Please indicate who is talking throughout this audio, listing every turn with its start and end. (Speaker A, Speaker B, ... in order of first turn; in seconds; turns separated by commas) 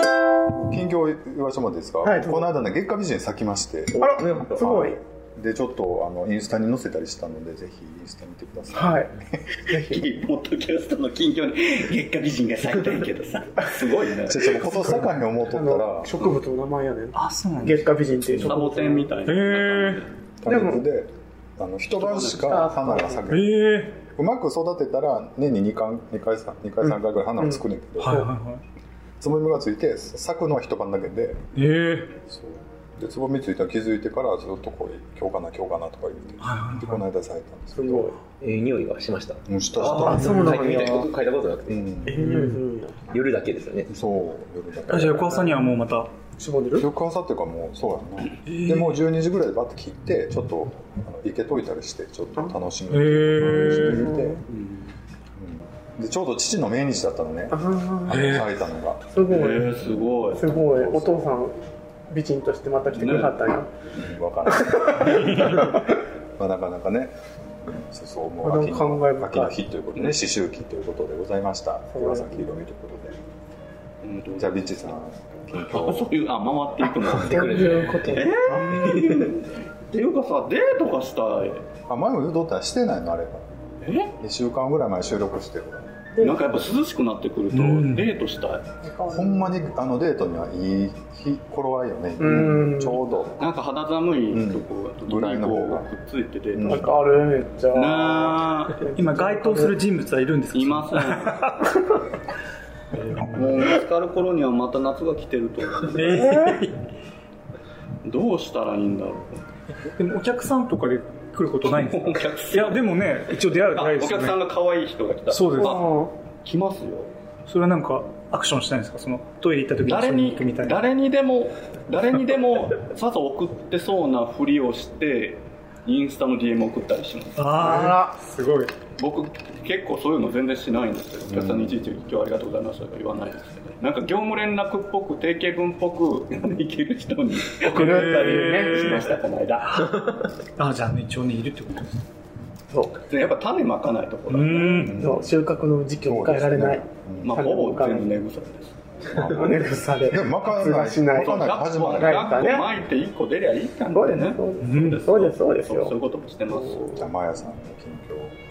Speaker A: 0.5-9.2, Speaker B: 2.0-2.5, Speaker C: 4.0-4.8, Speaker B: 4.0-5.0, Speaker B: 8.7-9.1, Speaker B: 9.7-10.0, Speaker D: 9.7-14.7, Speaker A: 14.2-16.1, Speaker B: 14.7-19.1, Speaker E: 17.1-18.6, Speaker D: 18.4-20.1, Speaker E: 19.2-20.0, Speaker A: 20.4-28.3, Speaker B: 20.4-20.8, Speaker D: 22.0-22.4, Speaker B: 22.2-23.2, Speaker E: 23.3-24.0, Speaker B: 26.8-28.3, Speaker E: 28.0-28.6, Speaker A: 29.2-31.4, Speaker E: 31.5-32.1, Speaker A: 32.2-38.2, Speaker E: 36.4-37.0, Speaker B: 37.8-38.2, Speaker C: 38.4-43.9, Speaker A: 39.5-40.7, Speaker B: 39.9-41.1, Speaker E: 40.2-40.5, Speaker A: 41.7-42.3, Speaker B: 42.1-43.0, Speaker A: 43.9-45.5, Speaker E: 44.9-46.1, Speaker B: 45.3-45.6, Speaker B: 46.4-46.9, Speaker A: 46.8-54.4, Speaker E: 48.4-49.0, Speaker E: 52.9-54.1, Speaker B: 53.7-54.4, Speaker D: 54.5-54.9, Speaker A: 55.4-59.0, Speaker B: 57.5-58.4, Speaker E: 58.1-58.5, Speaker B: 59.1-63.7, Speaker D: 59.3-61.1, Speaker D: 62.9-63.4, Speaker A: 64.0-73.2, Speaker B: 64.5-66.0, Speaker E: 65.0-65.6, Speaker B: 68.4-69.5, Speaker B: 71.9-72.6, Speaker D: 74.0-74.8, Speaker A: 74.4-76.1, Speaker D: 75.5-81.7, Speaker C: 77.1-78.2, Speaker B: 77.1-78.9, Speaker C: 78.7-79.3, Speaker A: 81.9-83.5, Speaker D: 83.8-84.1, Speaker A: 84.2-86.0, Speaker B: 86.2-86.5, Speaker D: 86.2-88.7, Speaker E: 87.5-88.1, Speaker B: 88.8-89.6, Speaker A: 89.1-93.4, Speaker B: 92.2-93.0, Speaker D: 93.4-96.9, Speaker A: 94.3-95.9, Speaker A: 96.5-96.9, Speaker B: 96.6-99.7, Speaker D: 97.7-98.8, Speaker E: 98.9-101.7, Speaker D: 100.5-101.5, Speaker D: 103.2-106.5, Speaker E: 105.9-106.8, Speaker B: 106.2-106.5, Speaker D: 108.0-109.4, Speaker E: 109.8-114.4, Speaker D: 111.7-117.1, Speaker E: 115.3-115.8, Speaker B: 115.6-116.1, Speaker E: 117.5-120.8, Speaker D: 119.8-127.7, Speaker E: 127.4-128.7, Speaker B: 127.6-128.1, Speaker D: 129.0-140.0, Speaker A: 131.3-131.7, Speaker B: 137.7-139.2, Speaker E: 137.8-139.1, Speaker E: 139.7-140.0, Speaker E: 140.6-142.0, Speaker B: 142.7-143.0, Speaker D: 143.1-144.9, Speaker E: 144.3-145.0, Speaker A: 144.8-145.3, Speaker B: 145.0-148.1, Speaker A: 146.0-147.3, Speaker D: 147.2-148.8, Speaker A: 149.1-152.3, Speaker B: 149.3-151.5, Speaker D: 151.1-157.1, Speaker B: 152.0-152.7, Speaker B: 153.9-155.9, Speaker E: 154.6-155.0, Speaker B: 156.5-156.8, Speaker A: 156.9-158.3